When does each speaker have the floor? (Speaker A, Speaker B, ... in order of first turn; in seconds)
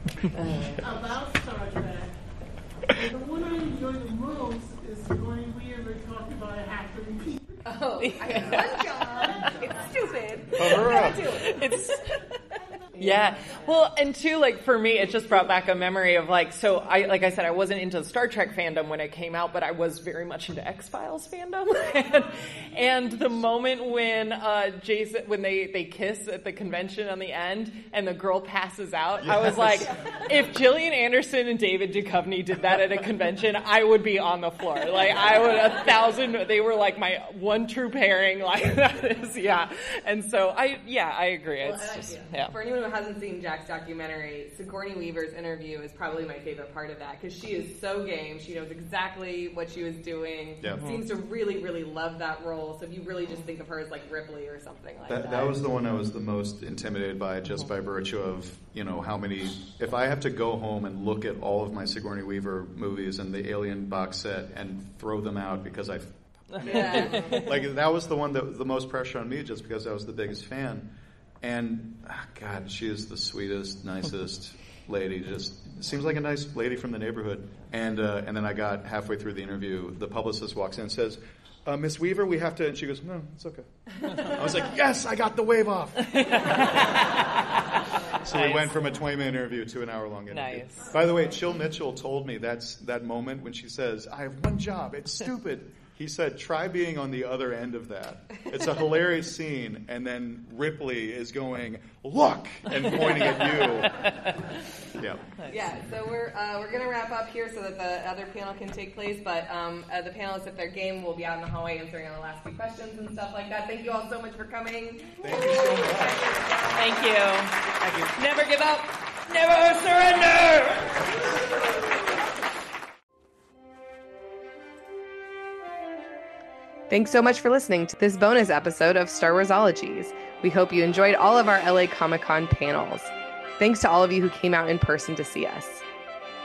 Speaker A: 0.3-0.9, 7.7-11.7, 12.9-13.8, 41.6-55.6, 66.6-67.5, 105.5-117.0, 126.9-135.8
Speaker B: 0.7-2.2, 2.9-7.6, 8.3-11.7
Speaker C: 8.1-9.7, 10.7-12.2, 13.0-42.5, 50.7-51.0, 66.8-67.4, 86.2-87.6, 88.3-88.8, 90.3-90.9, 116.8-121.2
Speaker D: 10.6-11.3, 29.2-29.9, 50.6-50.9, 55.1-70.9, 71.4-86.9, 88.2-104.2, 104.9-105.4, 115.2-116.4, 117.7-118.1